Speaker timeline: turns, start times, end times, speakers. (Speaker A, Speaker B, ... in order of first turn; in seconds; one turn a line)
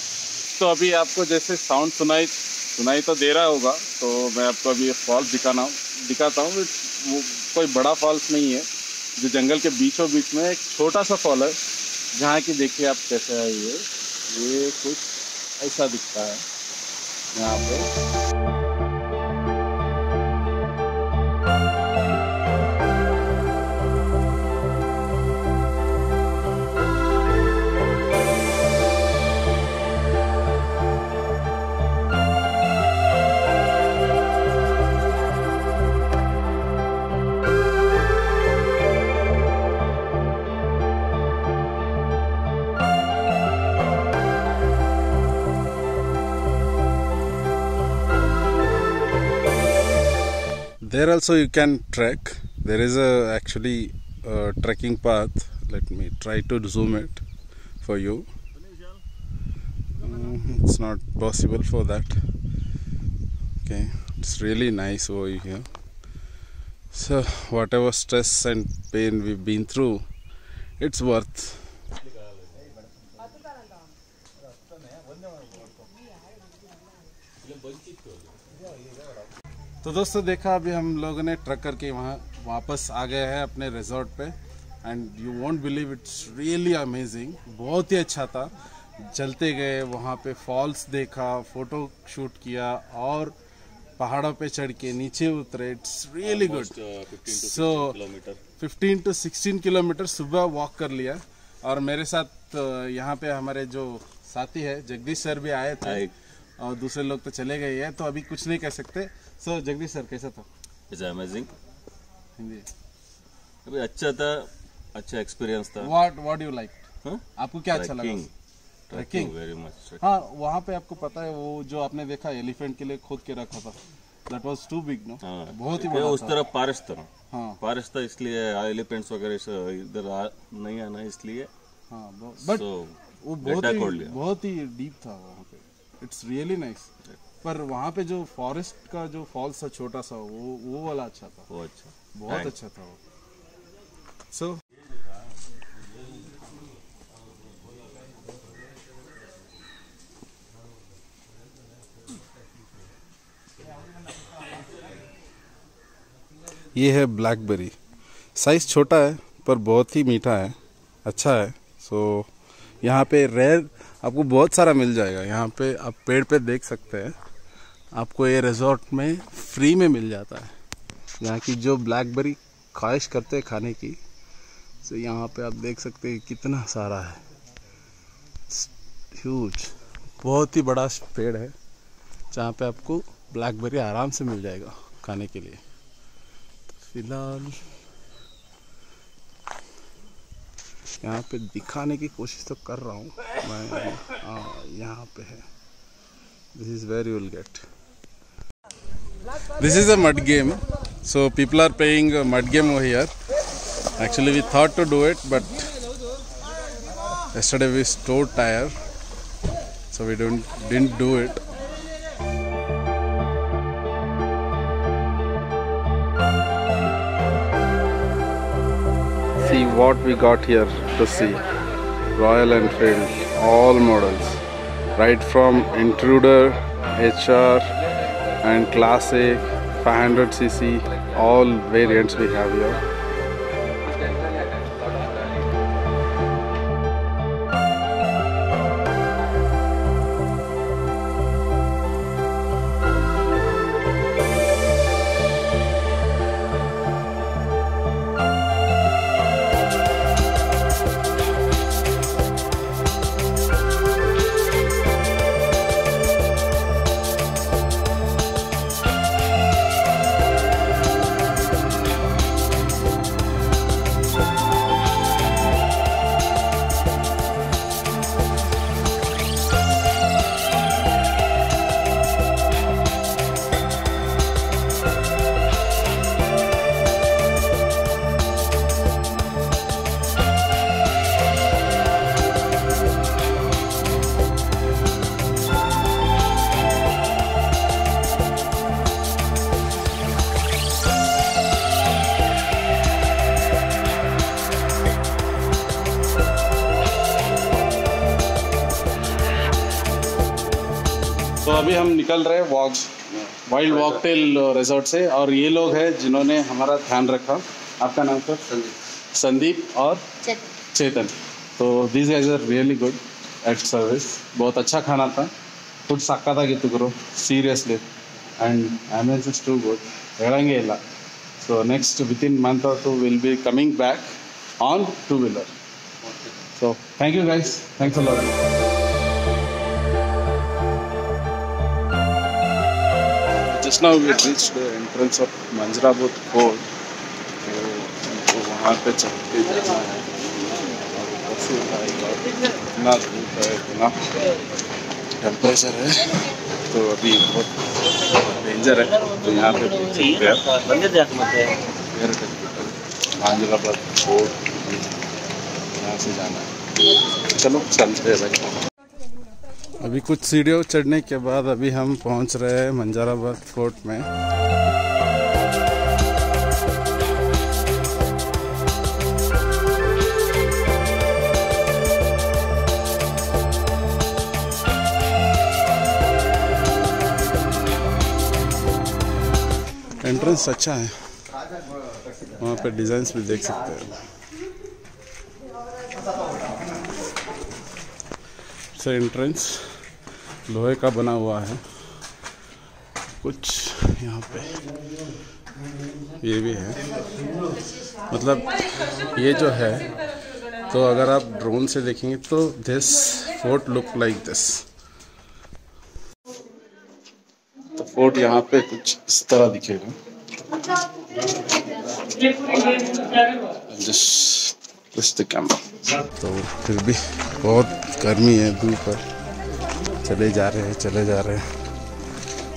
Speaker A: 0.5-11.6
Speaker A: 12.1-16.4
Speaker A: 17.3-17.9
Speaker A: 50.8-57.2
Speaker A: 57.8-58.3
Speaker A: 60.0-62.2
Speaker A: 63.6-65.7
Speaker A: 66.9-70.0
Speaker A: 70.8-71.7
Speaker B: 77.4-78.3
Speaker A: 79.8-93.3
Speaker A: 94.0-96.8
Speaker B: 96.2-98.4
Speaker A: 97.3-98.0
Speaker A: 98.6-106.1
Speaker B: 105.8-106.2
Speaker A: 106.6-110.5
Speaker B: 110.9-111.5
Speaker A: 112.4-112.7
Speaker B: 113.7-115.9
Speaker A: 115.8-116.8
Speaker B: 117.0-118.3
Speaker A: 117.4-118.3
Speaker B: 118.9-120.0
Speaker A: 118.9-119.3
Speaker A: 120.0-126.4
Speaker B: 125.2-127.1
Speaker A: 127.3-127.6
Speaker B: 127.6-131.5
Speaker A: 131.9-132.7
Speaker B: 132.4-134.2
Speaker A: 133.2-136.9
Speaker A: 137.4-141.5
Speaker B: 141.5-142.6
Speaker A: 142.1-143.0
Speaker A: 144.3-144.6
Speaker A: 156.7-157.8
Speaker A: 158.3-162.3
Speaker A: 162.8-167.2
Speaker A: 167.9-170.6
Speaker A: 171.2-174.0
Speaker A: 174.8-177.2
Speaker A: 178.5-181.6
Speaker A: 182.3-185.6
Speaker A: 186.7-187.7
Speaker A: 191.0-195.5
Speaker A: 196.5-197.7
Speaker A: 199.5-203.1
Speaker A: 203.9-205.7
Speaker A: 207.3-208.8
Speaker A: 209.9-211.4
Speaker A: 219.4-221.4
Speaker A: 222.1-224.4
Speaker A: 225.0-227.7
Speaker A: 228.4-232.8
Speaker A: 301.4-315.3
Speaker A: 315.9-317.8
Speaker A: 318.4-320.8
Speaker A: 321.4-325.5
Speaker A: 326.5-328.4
Speaker A: 333.4-336.7
Speaker A: 337.4-344.1
Speaker A: 345.2-350.8
Speaker B: 350.7-351.5
Speaker A: 351.7-355.1
Speaker A: 355.8-358.6
Speaker A: 359.8-364.1
Speaker A: 380.0-381.1
Speaker A: 382.3-384.0
Speaker A: 388.7-389.8
Speaker A: 390.5-391.6
Speaker A: 393.2-394.6
Speaker A: 396.2-397.0
Speaker A: 397.7-399.9
Speaker A: 400.6-404.7
Speaker A: 407.8-410.0
Speaker A: 412.5-419.0
Speaker A: 420.0-421.5